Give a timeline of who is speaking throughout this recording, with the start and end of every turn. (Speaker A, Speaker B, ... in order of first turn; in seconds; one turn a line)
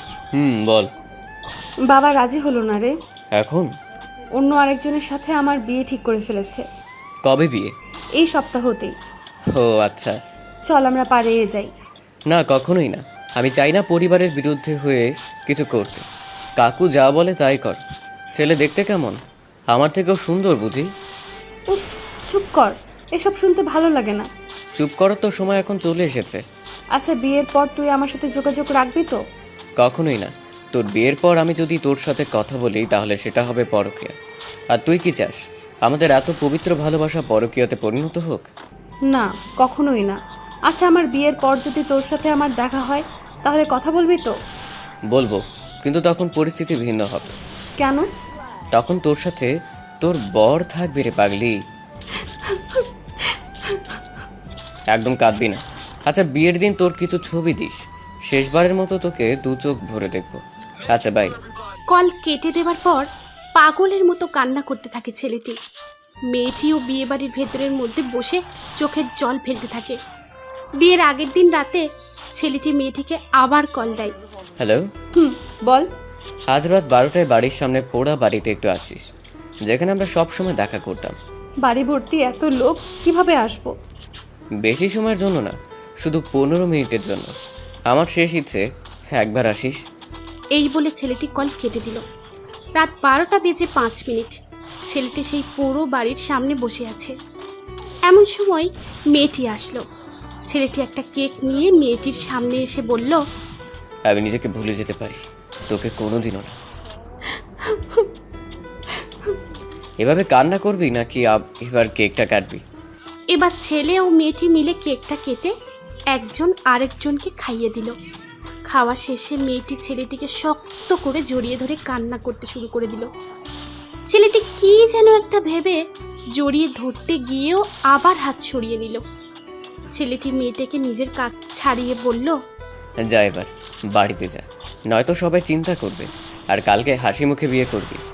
Speaker A: 0.3-0.9
Speaker B: 1.9-2.9
Speaker A: 3.4-3.7
Speaker B: 4.4-6.6
Speaker A: 7.3-7.7
Speaker B: 8.2-8.9
Speaker A: 9.6-10.2
Speaker B: 10.7-11.7
Speaker A: 12.3-16.0
Speaker A: 16.6-17.8
Speaker A: 18.4-19.2
Speaker A: 19.7-20.9
Speaker B: 21.7-24.3
Speaker A: 24.8-26.4
Speaker B: 27.0-29.2
Speaker A: 29.8-34.1
Speaker A: 34.7-38.5
Speaker B: 39.1-40.2
Speaker B: 40.7-44.3
Speaker A: 45.1-47.2
Speaker B: 47.8-48.1
Speaker A: 48.7-49.5
Speaker A: 50.0-51.5
Speaker B: 52.5-52.8
Speaker A: 54.9-57.8
Speaker A: 58.3-61.3
Speaker C: 61.9-65.6
Speaker C: 66.3-70.0
Speaker C: 70.8-74.2
Speaker A: 74.6-74.9
Speaker B: 75.2-75.9
Speaker A: 76.5-79.0
Speaker A: 79.7-81.2
Speaker B: 81.6-83.7
Speaker A: 84.6-87.3
Speaker A: 87.9-89.8
Speaker C: 90.5-92.0
Speaker C: 92.8-94.4
Speaker C: 94.9-97.2
Speaker C: 98.1-99.8
Speaker C: 100.5-103.2
Speaker A: 104.1-106.6
Speaker A: 110.0-112.6
Speaker C: 113.3-115.5
Speaker C: 116.1-118.0
Speaker C: 118.7-123.1
Speaker C: 124.1-125.8
Speaker C: 126.4-129.0
Speaker C: 129.9-132.4
Speaker A: 133.1-138.0